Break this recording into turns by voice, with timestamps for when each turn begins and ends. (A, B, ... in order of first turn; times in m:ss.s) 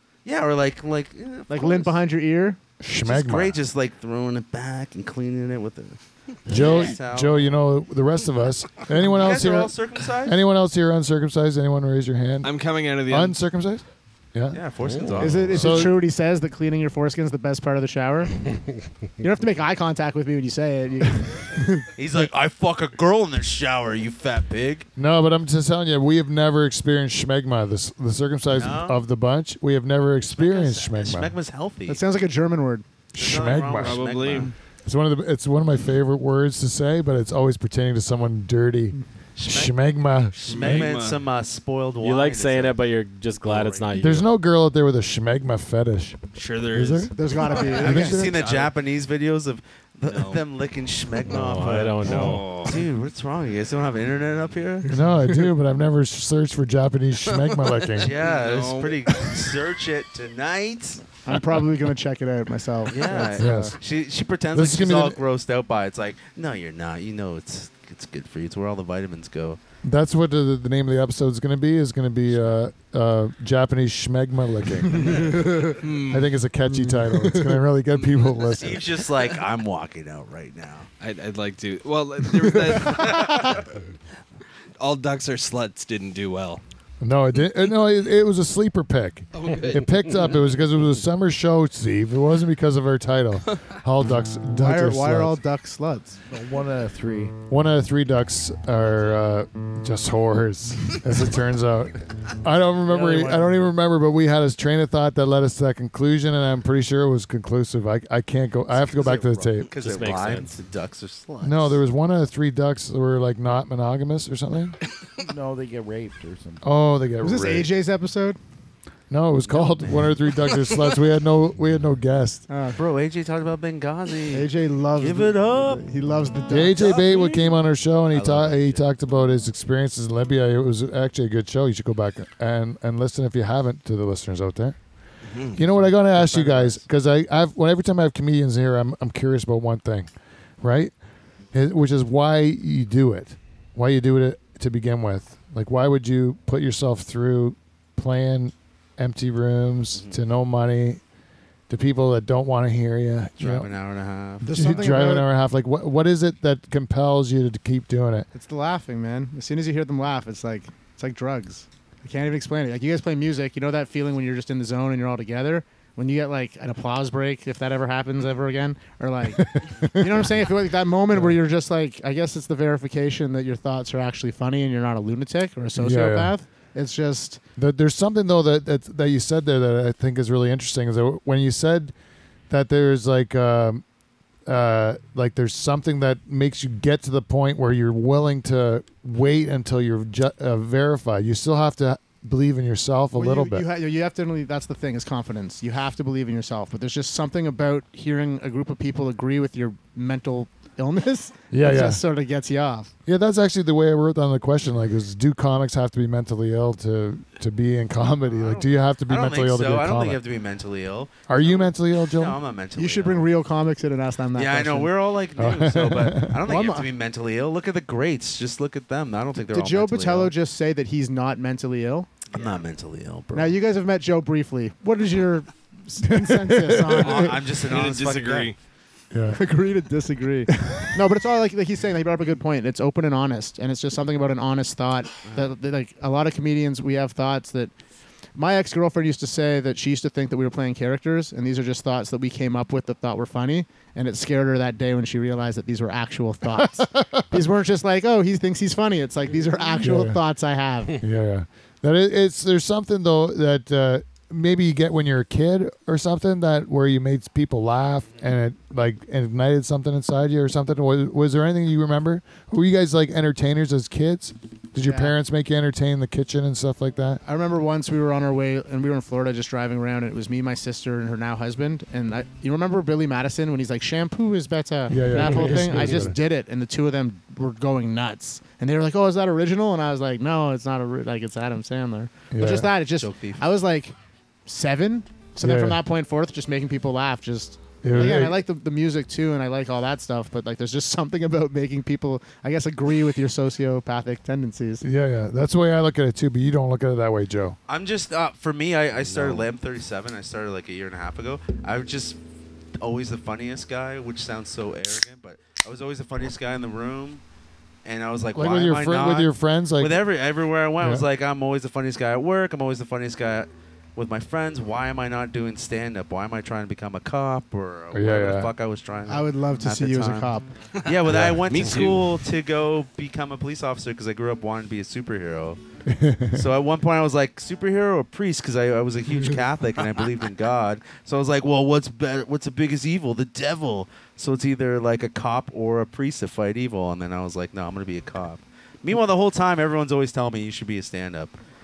0:00.2-0:02.0 A
0:01.5-0:02.6 B
0:02.8-0:03.6 C
0:03.0-0:07.5 A
0:06.4-0:14.6 C
0:09.0-0:10.4 A
0:12.4-0:13.4 D
0:14.5-0:15.9 A
0:14.8-0:15.4 E
0:15.2-0:18.4 B
0:15.5-0:16.0 C
0:19.2-0:21.9 B
0:22.0-0:24.9 A
0:25.0-0:31.3 C
0:28.5-0:29.0 A
0:30.2-0:32.0 A
0:31.9-0:32.9 B
0:33.1-0:40.9 C
0:33.2-0:34.5 A
0:33.7-0:34.5 D
0:39.3-0:39.8 A
0:40.3-0:42.8 A
0:40.4-0:41.2 D
0:42.0-0:44.3 E
0:43.4-0:44.1 A
0:44.0-0:46.2 C
0:46.3-0:48.7 D
0:46.7-0:48.4 C
0:47.1-0:48.3 B
0:47.6-0:54.9 A
0:50.1-0:50.4 D
0:51.2-0:52.5 E
0:52.0-0:52.8 D
0:54.9-0:58.1 C
0:57.3-0:59.4 D
0:58.0-1:01.2 A
1:01.2-1:03.7 B
1:02.9-1:09.6 A
1:03.4-1:03.8 C
1:04.5-1:05.2 C
1:09.8-1:15.5 C
1:14.9-1:16.3 D
1:16.1-1:18.8 C
1:16.8-1:17.6 B
1:18.0-1:18.4 D
1:18.6-1:20.9 A
1:21.0-1:23.7 D
1:24.8-1:26.6 D
1:27.0-1:35.4 C
1:29.3-1:30.4 D
1:34.5-1:36.2 B
1:36.3-1:37.4 F
1:37.5-1:49.7 C
1:42.9-1:43.5 B
1:49.6-1:51.8 A
1:49.7-1:50.6 E
1:51.4-1:54.8 C
1:55.2-1:56.6 F
1:56.6-1:57.7 C
1:57.2-1:58.4 B
1:59.1-2:02.4 C
1:59.5-2:00.0 A
2:02.5-2:02.8 B
2:02.7-2:05.8 A
2:04.3-2:07.0 B
2:06.5-2:14.8 C
2:06.8-2:07.6 A
2:08.1-2:08.8 A
2:15.2-2:15.6 D
2:15.5-2:20.1 C
2:15.7-2:16.8 A
2:20.6-2:20.9 C
2:21.5-2:31.0 C
2:31.7-2:33.7 C
2:33.4-2:34.8 A
2:34.4-2:35.3 B
2:34.5-2:38.3 C
2:38.3-2:57.4 B
2:49.3-2:50.2 C
2:55.8-2:56.3 C
2:57.6-3:01.9 C
3:02.5-3:03.8 C
3:04.5-3:13.6 C
3:13.2-3:22.9 B
3:21.5-3:22.0 C
3:23.0-3:30.2 C
3:28.3-3:33.3 A
3:31.3-3:32.4 C
3:32.8-3:34.9 B
3:34.3-3:40.3 A
3:35.4-3:36.4 C
3:36.4-3:36.9 B
3:39.5-3:42.1 B
3:42.3-3:43.5 A
3:43.3-3:47.4 B
3:46.0-3:47.3 C
3:47.0-3:48.5 A
3:47.6-3:48.6 D
3:49.1-3:49.4 C
3:49.3-3:57.7 B
3:50.5-3:50.9 C
3:58.3-4:11.0 B
4:06.6-4:07.4 C
4:09.8-4:10.2 C
4:10.9-4:27.2 C
4:24.8-4:25.1 B
4:27.2-4:43.9 B
4:34.9-4:36.1 C
4:42.3-4:42.7 C
4:43.0-4:43.4 A
4:44.4-4:54.8 B
4:45.4-4:45.8 C
4:47.8-4:48.4 C
4:54.8-4:57.6 C
4:57.7-5:02.2 A
4:59.1-4:59.4 D
5:02.8-5:07.2 A
5:07.8-5:20.3 A
5:08.3-5:10.0 C
5:10.8-5:11.0 C
5:17.9-5:18.5 C
5:19.1-5:20.5 B
5:20.8-5:22.1 D
5:20.8-5:25.6 A
5:21.1-5:21.4 C
5:25.9-5:26.4 C
5:26.3-5:41.4 A